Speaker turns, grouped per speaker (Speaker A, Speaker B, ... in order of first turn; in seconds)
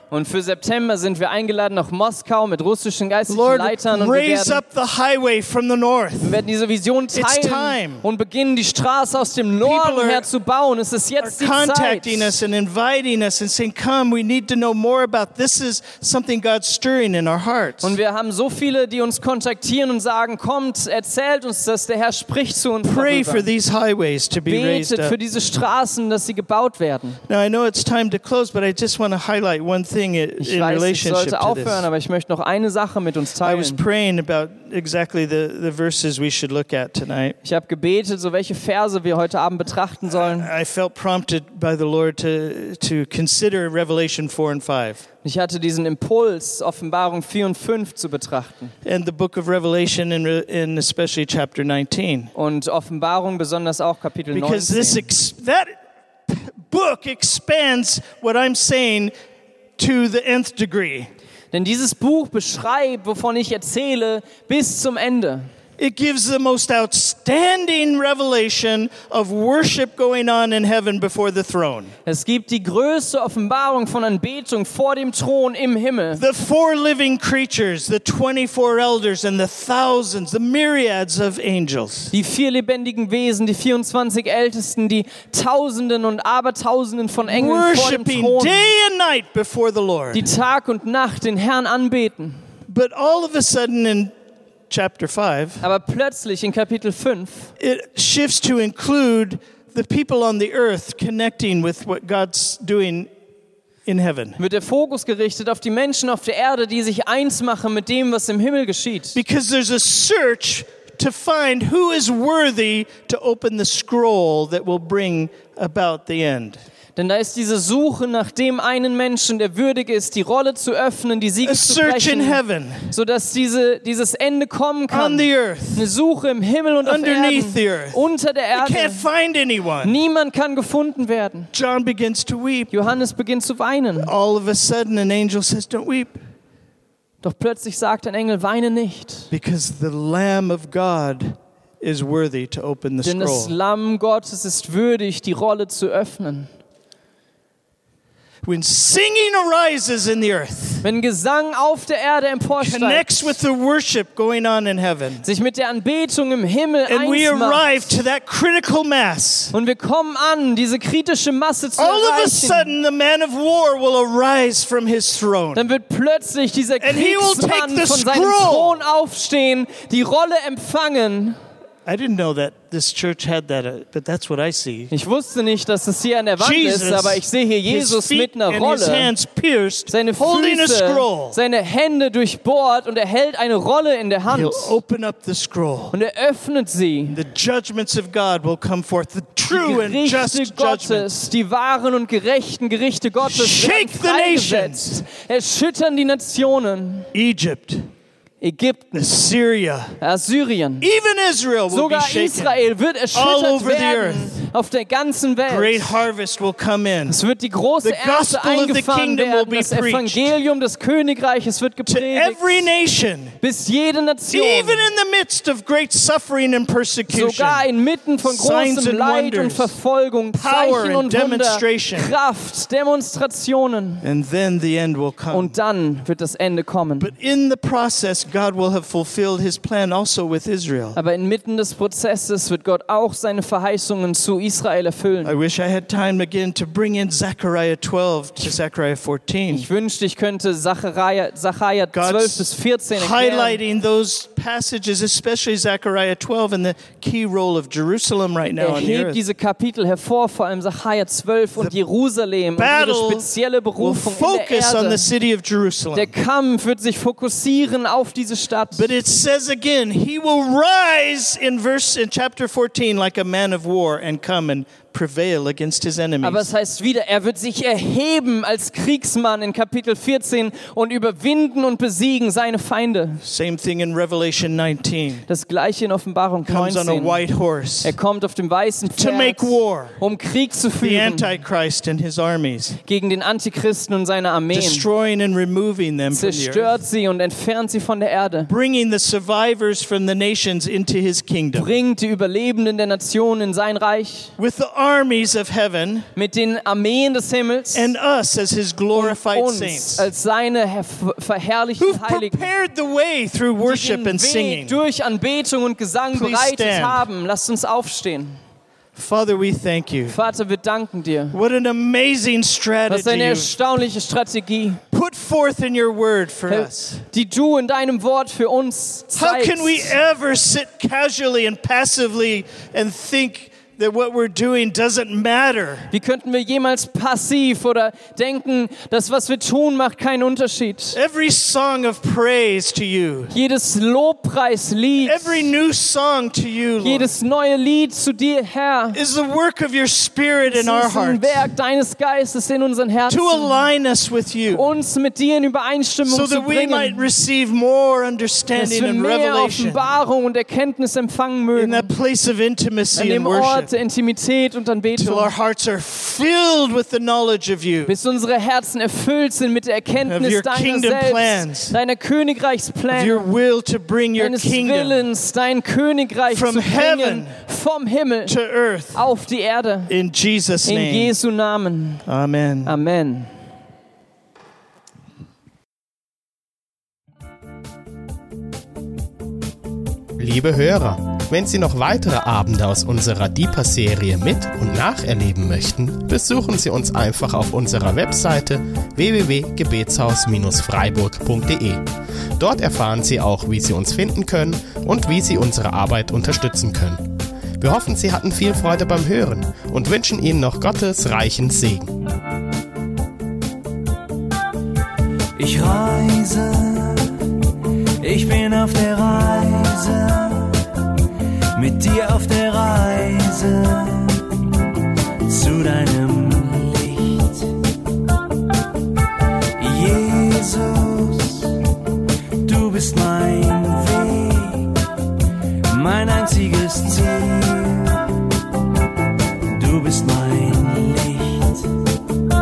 Speaker A: 0.1-4.6, 6.2-12.4, 17.8-23.5, 24.5-27.2, 30.4-33.8, 37.4-40.5, 45.2-48.7, 52.4-55.1, 61.5-65.5, 72.1-76.2, 82.1-88.7, 90.1-92.4, 95.6-97.5, 104.4-109.2, 117.0-129.1, 129.8-131.5, 132.7-134.1, 137.2-139.3, 143.0-146.5, 150.8-153.4, 155.2-157.9, 159.5-162.7, 165.6-171.4, 174.9-179.1, 179.9-184.8, 185.9-187.2, 189.5-197.1, 198.4-199.1, 200.0-200.9, 201.7-205.9, 207.1-212.7, 213.4-214.8, 217.1-224.1, 225.3-227.1, 230.9-235.3, 239.5-243.6, 248.6-255.1, 255.9-258.9, 266.2-273.2, 275.3-277.2, 277.8-281.4, 282.9-284.9, 286.1-288.5, 291.6-294.3, 296.2-297.9, 298.9-302.5, 303.6-308.4, 310.1-311.4, 312.9-314.8, 316.5-319.9, 325.9-331.0, 333.3-335.5, 336.8-339.0, 340.5-343.6, 344.5-347.1, 348.6-351.9, 352.9-355.3, 357.9-363.3, 364.2-368.4, 368.9-369.9, 370.7-372.0, 372.6-373.3
Speaker B: 3.3-6.4, 7.1-8.1, 9.6-10.3, 11.2-18.0, 22.8-25.2, 27.3-31.9, 33.4-37.4, 40.1-45.0, 48.9-52.3, 54.3-55.8, 56.3-59.1, 59.8-61.1, 65.8-71.9, 76.2-82.1, 87.2-90.2, 92.7-94.1, 94.7-95.6, 97.6-103.1, 103.9-104.4, 109.2-116.6, 121.4-122.9, 124.9-125.9, 126.8-128.0, 128.5-130.0, 131.5-132.7, 134.0-136.2, 139.3-143.5, 148.4-150.8, 152.6-155.2, 156.9-159.5, 161.8-165.7, 166.8-168.8, 171.8-174.9, 176.4-181.4, 184.3-185.9, 187.1-191.1, 193.2-195.0, 197.1-197.9, 199.0-200.0, 200.8-202.6, 203.1-204.4, 205.4-207.2, 207.8-210.3, 211.9-213.4, 214.3-217.7, 218.2-219.8, 220.3-222.1, 224.0-225.6, 227.0-231.0, 235.2-239.7, 241.9-249.2, 252.6-253.3, 253.8-256.1, 258.7-266.5, 273.2-275.3, 276.5-277.9, 278.9-280.0, 280.8-282.8, 284.5-286.8, 288.5-291.7, 294.4-296.1, 297.7-300.1, 301.8-304.8, 306.1-307.0, 308.9-310.2, 311.3-313.5, 314.9-317.0, 319.1-325.9, 330.9-333.3, 335.0-337.1, 338.9-341.5, 343.1-344.7, 346.1-349.8, 351.6-353.7, 354.9-357.9, 360.1-361.8, 362.9-365.1, 366.3-367.4, 368.3-369.0, 369.9-371.1, 372.1-372.8
Speaker C: 380.2-391.9, 392.4-397.1, 397.6-401.9
Speaker D: 405.4-407.4, 408.0-410.7, 411.6-414.5, 415.3-417.6, 419.6-421.6, 422.4-424.8, 425.7-428.1, 429.5-431.8